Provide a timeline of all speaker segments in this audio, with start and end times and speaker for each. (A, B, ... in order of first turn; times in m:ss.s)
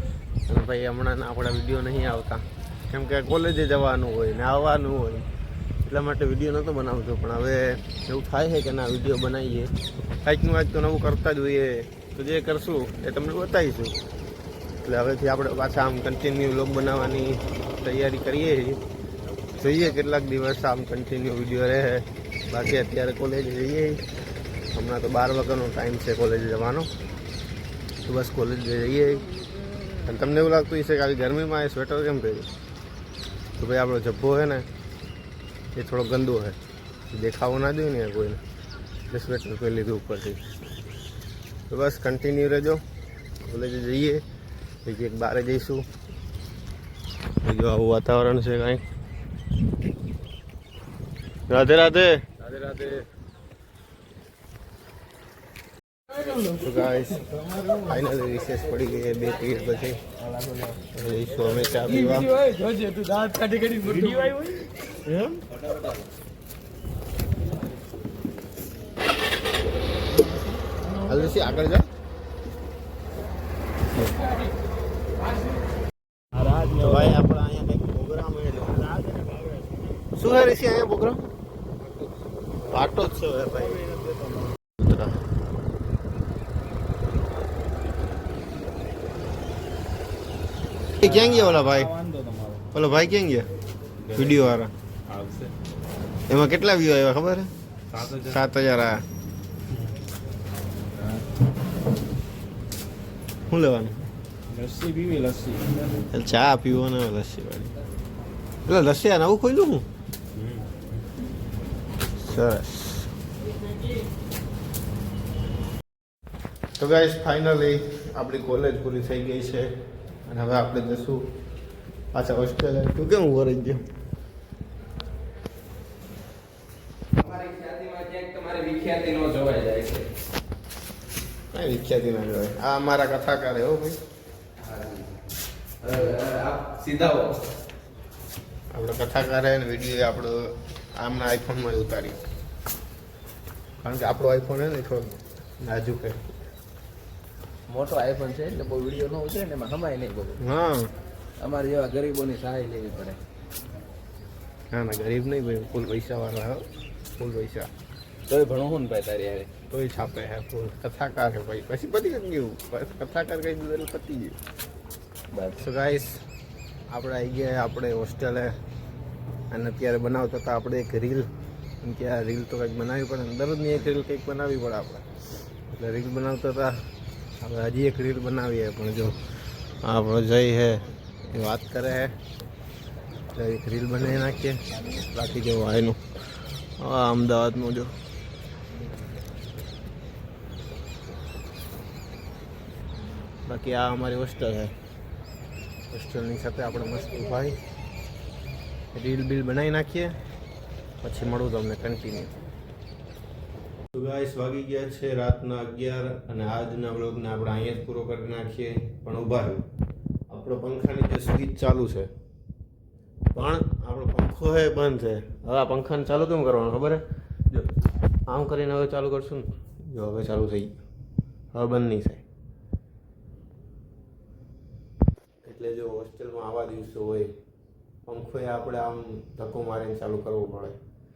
0:00.5-0:05.3 A
0:05.8-0:14.0 A
0:14.8-0:18.8 A
0:19.4-0:24.0 A
0:24.7-0:26.9 A
0:28.0-0:29.3 A
0:30.0-0:32.5 A
0:33.6-0:34.6 A
0:35.7-0:36.6 A
0:37.1-0:38.4 A
0:39.1-0:40.4 A
0:41.7-0:42.8 A
0:43.4-0:44.2 A
0:44.8-0:45.8 A
0:47.4-0:48.8 A
0:51.5-0:52.3 A
0:52.5-0:53.0 B
0:56.2-1:00.0 A
1:00.3-1:00.7 B
1:00.9-1:02.4 A
1:01.8-1:04.6 B
1:04.1-1:04.3 C
1:05.0-1:05.4 A
1:05.4-1:06.1 B
1:11.0-1:11.9 A
1:13.9-1:14.2 A
1:16.4-1:16.8 C
1:16.6-1:19.6 A
1:20.1-1:21.3 A
1:22.6-1:23.9 A
1:23.9-1:24.4 C
1:24.7-1:25.2 A
1:31.0-1:32.0 A
1:31.7-1:32.6 C
1:32.7-1:33.5 A
1:34.1-1:34.7 A
1:35.1-1:35.5 C
1:36.3-1:39.0 A
1:37.9-1:38.3 C
1:43.5-1:44.1 A
1:44.5-1:45.8 C
1:46.1-1:47.7 A
1:48.6-1:49.9 A
1:52.1-1:53.1 A
1:56.8-1:59.7 A
2:00.2-2:01.3 A
2:02.1-2:03.9 A
2:07.1-2:10.1 B
2:11.5-2:14.0 A
2:14.6-2:15.2 B
2:15.8-2:17.4 B
2:18.7-2:20.4 A
2:21.0-2:22.2 A
2:23.8-2:26.3 A
2:27.7-2:30.4 B
2:30.4-2:30.9 A
2:31.4-2:33.2 B
2:34.7-2:36.7 A
2:37.2-2:37.7 A
2:38.3-2:39.5 B
2:39.7-2:44.4 A
2:45.3-2:45.6 B
2:45.6-2:46.2 A
2:46.9-2:48.6 A
2:49.5-2:51.3 A
2:51.8-2:55.1 A
2:55.7-2:56.8 A
2:57.4-2:59.2 A
2:59.8-3:02.2 A
3:03.3-3:06.0 A
3:06.8-3:07.9 A
3:13.4-3:14.7 A
3:15.9-3:17.6 A
3:18.9-3:20.2 A
3:21.0-3:22.4 A
3:23.9-3:29.6 A
3:30.3-3:32.1 A
3:33.3-3:37.7 A
3:38.3-3:40.8 A
3:41.5-3:42.2 A
3:45.4-3:47.4 A
3:48.0-3:50.8 A